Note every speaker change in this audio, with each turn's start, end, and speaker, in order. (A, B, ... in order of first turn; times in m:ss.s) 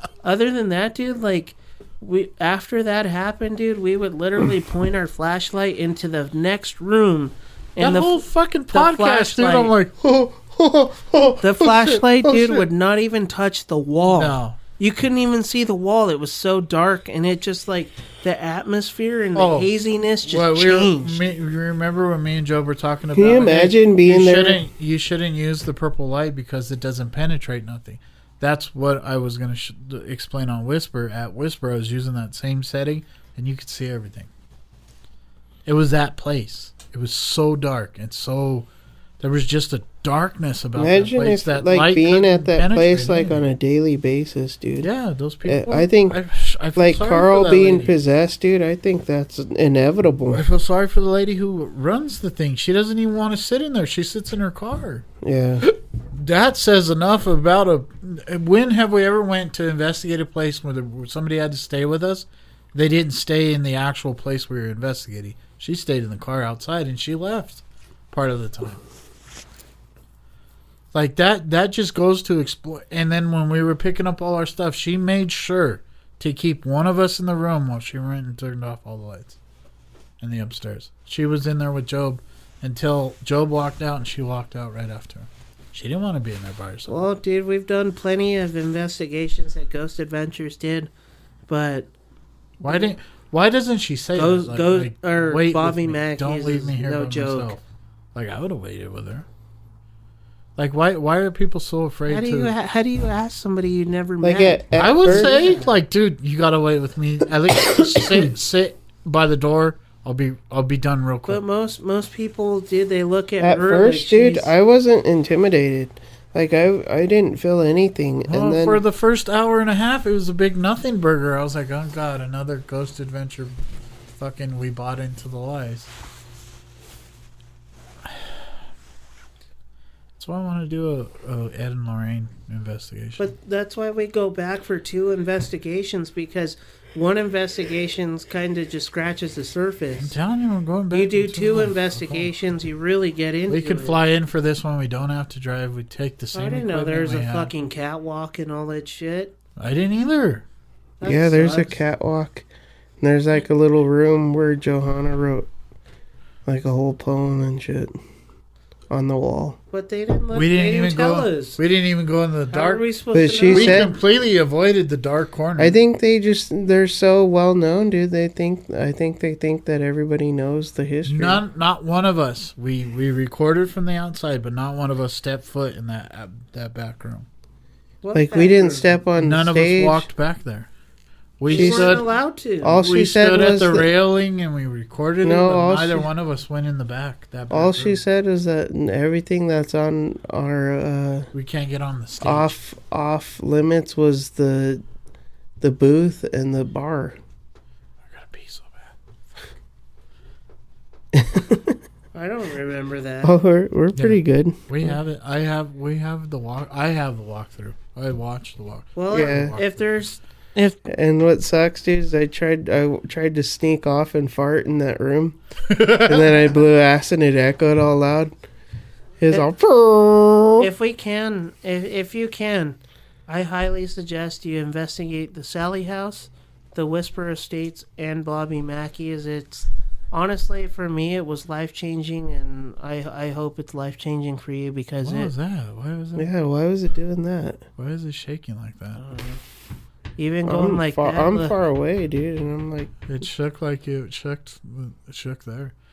0:00.2-0:09.7 A
0:07.8-0:12.7 B
0:11.4-0:21.2 A
0:14.0-0:14.6 B
0:19.3-0:34.3 B
0:23.2-0:24.6 C
0:35.6-0:38.7 B
0:39.2-0:43.4 B
0:40.8-0:44.9 C
0:44.8-0:47.9 B
0:45.4-0:46.2 C
0:46.7-0:50.4 C
0:50.3-0:55.0 B
0:55.2-0:55.7 C
0:55.6-1:08.8 B
1:10.9-1:19.4 B
1:20.2-1:27.1 B
1:26.9-1:30.9 A
1:31.5-1:31.9 A
1:32.6-1:37.6 B
1:32.6-1:32.9 A
1:34.2-1:37.6 A
1:38.1-1:39.2 B
1:40.6-1:42.5 B
1:42.1-1:45.6 A
1:44.2-1:45.6 C
1:44.8-1:51.4 B
1:47.7-1:48.2 C
1:51.3-1:54.5 A
1:53.4-1:58.8 C
1:58.2-2:03.6 B
2:04.2-2:05.9 B
2:08.0-2:08.5 B
2:10.2-2:13.2 B
2:13.2-2:20.2 A
2:20.0-2:22.3 B
2:20.9-2:24.0 A
2:23.5-2:27.5 B
2:26.3-2:29.4 A
2:29.6-2:30.4 B
2:31.0-2:31.8 A
2:31.0-2:32.5 C
2:33.0-2:35.5 C
2:36.4-2:38.0 C
2:38.9-2:39.6 C
2:39.7-2:41.6 A
2:40.3-2:42.8 B
2:42.5-2:43.9 A
2:43.1-2:43.9 C
2:43.5-2:45.8 B
2:45.6-2:51.4 C
2:51.0-2:57.3 B
2:58.0-2:58.9 A
2:58.1-3:00.1 C
2:59.2-3:00.7 B
3:01.4-3:02.1 B
3:01.5-3:02.8 A
3:01.5-3:02.0 C
3:02.6-3:03.9 C
3:02.6-3:08.0 B
3:05.2-3:06.1 C
3:07.5-3:11.3 C
3:11.3-3:12.5 B
3:12.2-3:14.8 C
3:15.6-3:17.2 C
3:18.1-3:18.9 B
3:21.1-3:21.8 C
3:22.1-3:23.3 A
3:23.2-3:24.9 C
3:23.9-3:29.8 B
3:29.0-3:30.8 A
3:29.1-3:29.6 C
3:30.8-3:38.3 C
3:35.7-3:36.6 B
3:39.2-3:40.7 C
3:40.6-3:55.3 A
3:55.0-3:56.3 B
3:56.2-3:57.6 C
3:57.8-3:59.0 B
3:58.9-3:59.4 A
4:00.2-4:01.5 A
4:00.4-4:03.0 C
4:03.0-4:05.7 B